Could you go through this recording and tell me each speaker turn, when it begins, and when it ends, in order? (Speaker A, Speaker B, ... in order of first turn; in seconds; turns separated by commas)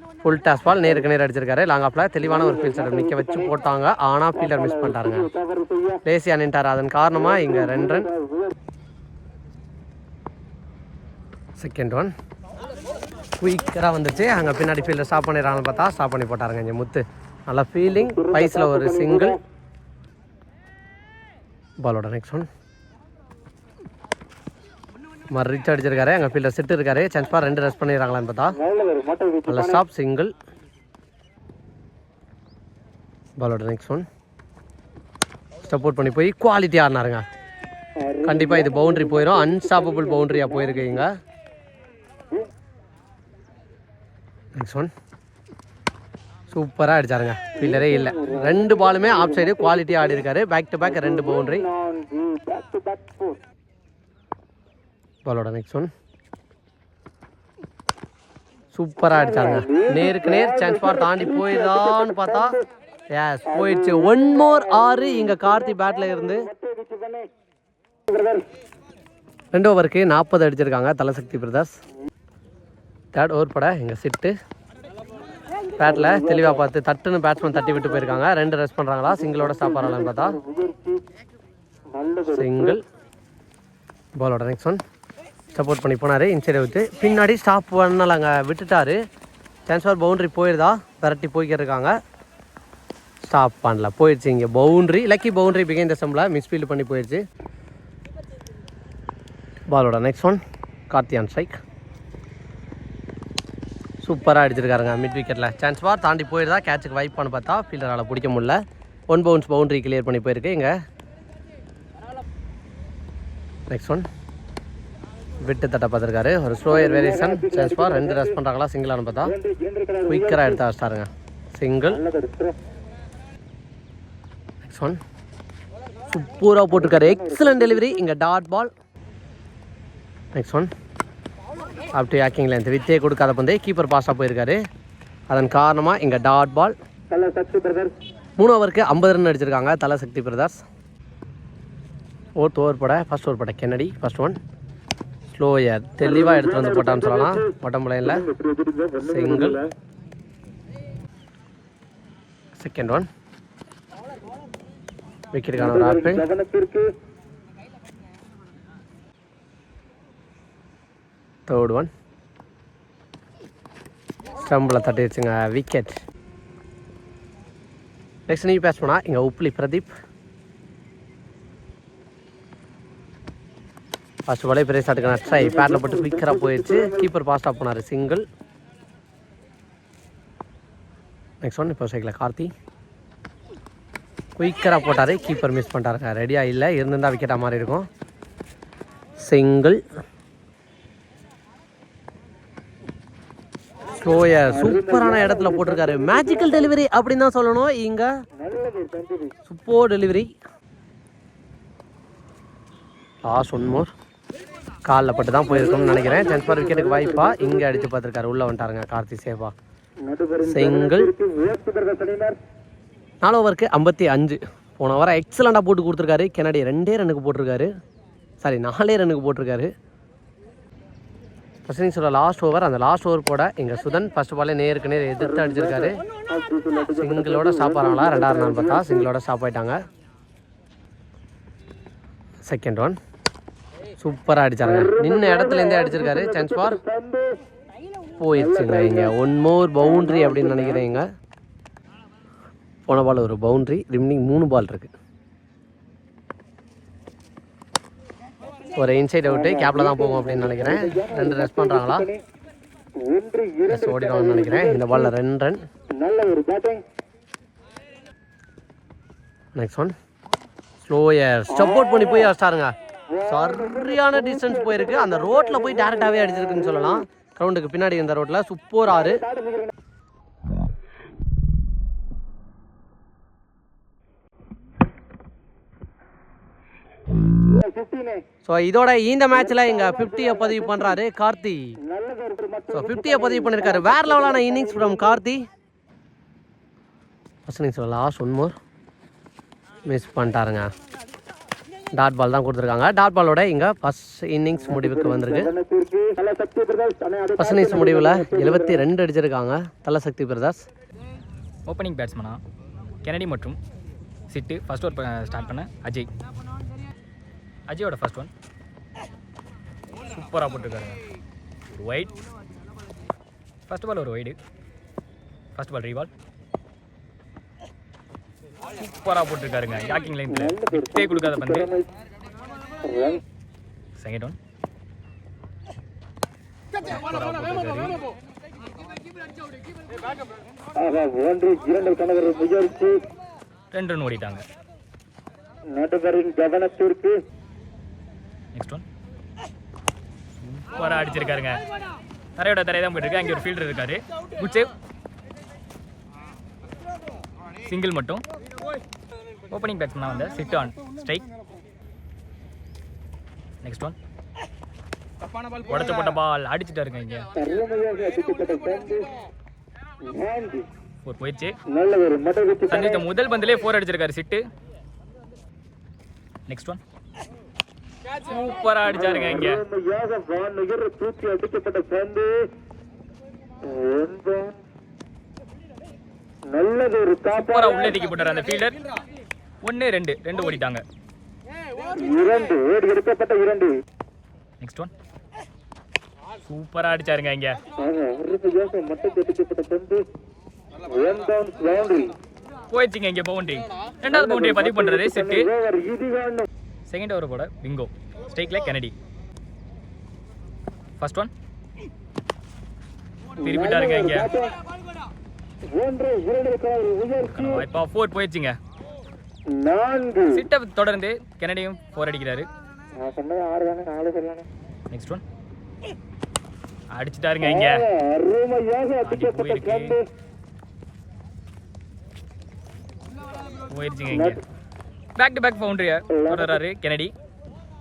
Speaker A: 0.2-5.3, Speaker B: 2.2-3.6, Speaker B: 4.3-6.0, Speaker A: 6.1-8.1, Speaker B: 7.2-8.5, Speaker A: 11.6-12.1, Speaker A: 13.4-19.4, Speaker B: 17.9-19.4, Speaker A: 21.8-22.5, Speaker A: 25.3-28.6, Speaker B: 28.6-29.9, Speaker A: 29.5-30.3, Speaker A: 33.4-34.1, Speaker A: 35.6-37.2, Speaker B: 38.0-41.0, Speaker A: 38.2-41.1, Speaker A: 44.6-44.9, Speaker A: 46.5-51.7, Speaker B: 47.6-50.2, Speaker B: 50.8-53.4, Speaker A: 55.2-55.9, Speaker A: 58.7-62.6, Speaker B: 59.1-62.6, Speaker A: 63.1-66.5, Speaker B: 63.5-67.3, Speaker B: 68.1-68.4, Speaker A: 69.5-71.7, Speaker A: 73.1-74.3, Speaker B: 75.8-76.6, Speaker A: 75.8-80.4, Speaker B: 79.2-81.0, Speaker B: 81.9-82.8, Speaker A: 82.3-82.8, Speaker A: 84.2-84.8, Speaker A: 85.5-89.0, Speaker A: 89.7-91.9, Speaker A: 93.2-97.2, Speaker A: 99.7-101.6, Speaker A: 104.0-110.7, Speaker A: 113.7-114.1, Speaker A: 115.4-119.3, Speaker B: 116.7-118.4, Speaker B: 119.2-120.6, Speaker A: 120.1-122.0, Speaker B: 121.9-122.6, Speaker A: 124.6-125.0, Speaker A: 126.1-128.7, Speaker B: 126.7-128.0, Speaker A: 130.3-130.7, Speaker A: 131.9-134.6, Speaker A: 135.3-136.8, Speaker B: 137.1-137.9, Speaker A: 138.4-140.6, Speaker A: 142.4-144.4, Speaker A: 145.3-148.2, Speaker B: 146.0-147.5, Speaker B: 148.0-149.7, Speaker A: 149.1-149.6, Speaker A: 152.6-153.1, Speaker A: 155.3-156.2, Speaker B: 155.6-156.9, Speaker A: 161.5-161.9, Speaker A: 164.4-166.0, Speaker A: 168.3-169.9, Speaker A: 174.3-178.2, Speaker B: 175.2-177.1, Speaker A: 181.4-182.5, Speaker A: 184.4-187.9, Speaker A: 189.2-189.8, Speaker A: 193.9-198.1, Speaker B: 194.5-196.7, Speaker B: 198.4-199.4, Speaker A: 199.5-200.3, Speaker A: 203.3-203.9, Speaker A: 204.9-209.5, Speaker B: 205.5-207.9, Speaker B: 210.1-212.4, Speaker A: 210.5-211.1, Speaker A: 213.2-217.7, Speaker A: 218.4-219.7, Speaker A: 221.7-226.0, Speaker B: 225.2-229.1, Speaker A: 227.0-229.8, Speaker A: 232.5-233.0, Speaker A: 234.0-236.8, Speaker B: 234.6-237.4, Speaker A: 238.2-241.1, Speaker B: 238.3-239.1, Speaker B: 239.8-241.0, Speaker A: 242.9-244.9, Speaker A: 248.8-252.1, Speaker B: 249.3-252.2, Speaker B: 253.1-255.1, Speaker A: 253.7-255.6, Speaker B: 256.0-256.8, Speaker A: 259.6-259.9, Speaker A: 260.8-262.7, Speaker B: 261.5-262.3, Speaker B: 263.1-267.0, Speaker A: 263.2-269.2, Speaker B: 268.9-269.7, Speaker B: 277.6-278.2, Speaker A: 278.4-281.8, Speaker B: 279.4-281.0, Speaker B: 281.9-285.2, Speaker A: 282.7-285.4, Speaker A: 287.5-288.6, Speaker A: 289.9-290.7, Speaker A: 291.9-295.5, Speaker B: 294.6-298.9, Speaker A: 297.4-300.6, Speaker C: 301.7-302.4, Speaker C: 303.0-303.6, Speaker C: 304.3-306.1, Speaker C: 307.7-308.3, Speaker C: 310.1-311.0, Speaker C: 311.7-312.1, Speaker C: 313.7-314.4, Speaker C: 315.6-316.1, Speaker C: 318.8-321.7, Speaker B: 320.3-321.9, Speaker B: 322.8-323.2, Speaker C: 324.0-324.4, Speaker C: 326.9-328.0, Speaker B: 330.8-332.9, Speaker C: 333.7-334.4, Speaker B: 335.7-337.2, Speaker C: 338.6-338.8, Speaker C: 340.4-341.6, Speaker C: 342.4-344.7, Speaker C: 347.7-348.2, Speaker C: 349.5-351.2, Speaker C: 353.6-354.0, Speaker C: 355.7-357.3, Speaker B: 357.4-359.1, Speaker B: 360.0-360.7, Speaker C: 361.0-361.6, Speaker B: 361.7-363.0, Speaker C: 362.7-364.4, Speaker C: 366.5-366.8, Speaker C: 368.3-369.6, Speaker B: 368.9-372.5, Speaker B: 373.6-374.6, Speaker B: 376.5-378.0, Speaker C: 377.3-378.8, Speaker C: 379.6-380.8, Speaker B: 381.9-383.7, Speaker C: 384.6-384.9, Speaker C: 386.4-387.6, Speaker B: 387.8-390.1, Speaker B: 390.8-392.2, Speaker C: 392.7-395.5, Speaker B: 394.1-396.5, Speaker C: 396.9-398.9, Speaker C: 401.0-401.3, Speaker C: 403.4-404.3, Speaker B: 403.4-404.6, Speaker B: 405.7-407.7, Speaker C: 407.2-408.6, Speaker B: 409.5-410.5, Speaker C: 410.3-412.5, Speaker B: 413.0-414.5, Speaker C: 414.9-415.2, Speaker C: 416.9-417.9, Speaker B: 417.4-420.1, Speaker C: 419.0-420.0, Speaker C: 423.7-424.4, Speaker B: 424.1-424.4, Speaker C: 425.2-427.1, Speaker B: 426.1-426.6